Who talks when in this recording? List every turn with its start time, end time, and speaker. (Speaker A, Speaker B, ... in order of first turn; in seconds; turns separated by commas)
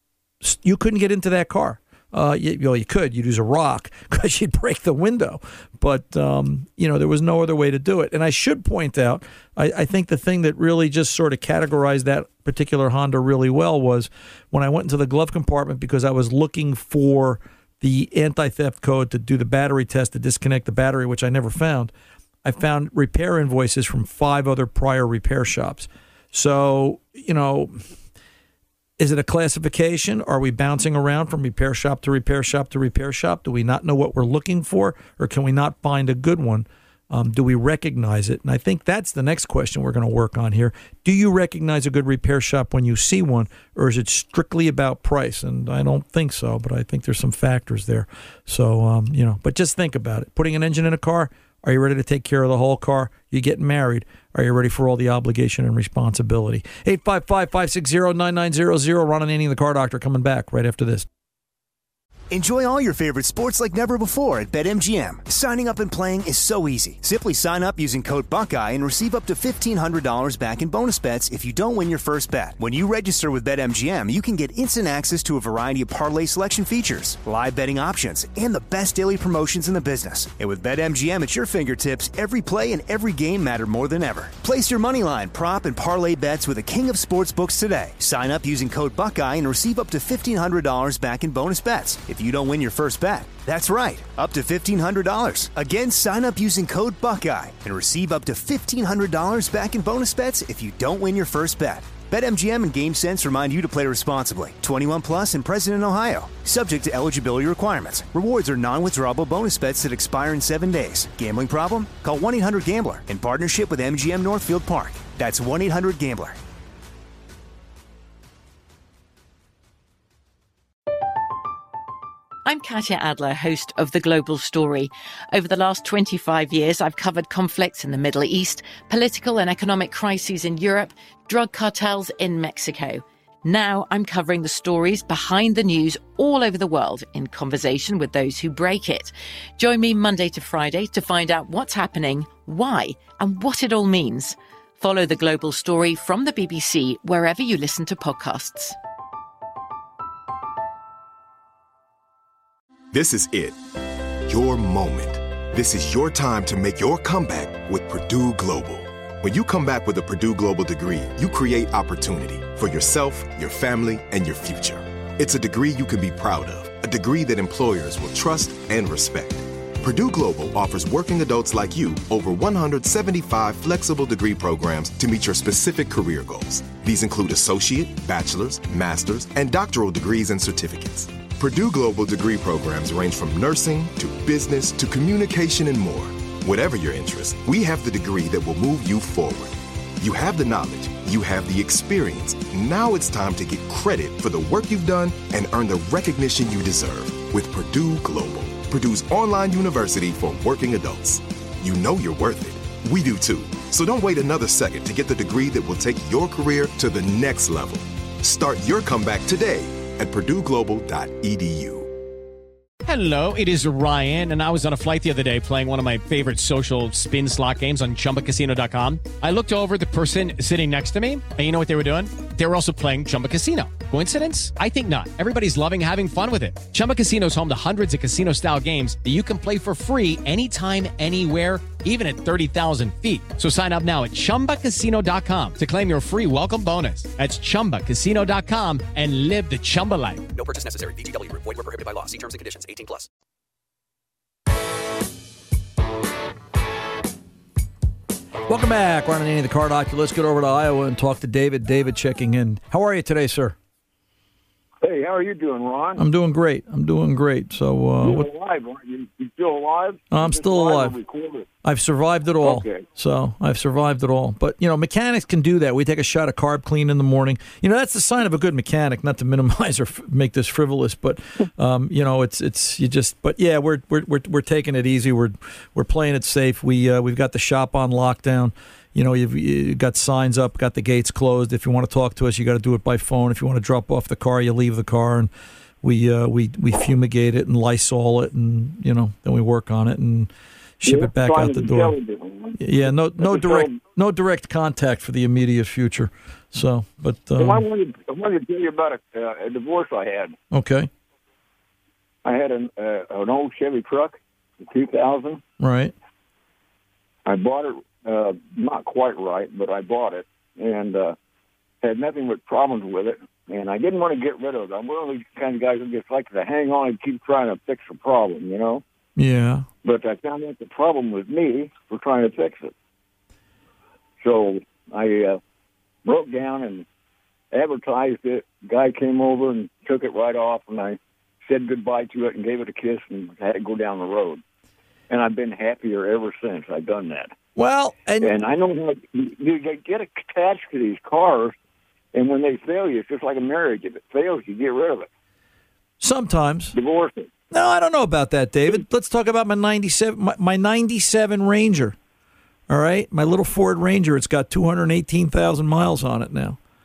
Speaker A: 0.4-21.9, Speaker A: 22.4-27.8, Speaker A: 29.0-61.0, Speaker B: 62.3-116.4, Speaker C: 122.4-148.8, Speaker D: 152.9-153.6, Speaker D: 154.2-211.9, Speaker E: 212.8-240.2, Speaker F: 240.3-243.1, Speaker A: 248.5-253.6, Speaker G: 254.8-256.0, Speaker A: 256.0-258.3, Speaker G: 258.0-261.5, Speaker A: 260.1-261.0, Speaker A: 261.6-285.3, Speaker G: 262.4-262.9, Speaker A: 285.8-291.9, Speaker G: 290.8-293.8, Speaker A: 292.6-297.6, Speaker G: 297.4-300.4, Speaker A: 300.5-300.9, Speaker G: 302.2-305.4, Speaker A: 305.6-305.9, Speaker G: 307.2-311.1, Speaker G: 311.8-318.8, Speaker A: 319.1-319.7, Speaker G: 319.8-322.7, Speaker G: 324.2-325.4, Speaker G: 326.0-326.9, Speaker G: 327.5-334.4, Speaker G: 335.1-337.3, Speaker A: 337.6-338.3, Speaker G: 338.2-341.6, Speaker G: 342.1-345.1, Speaker A: 346.0-346.7, Speaker G: 346.7-347.3, Speaker A: 347.5-351.9, Speaker A: 352.7-356.6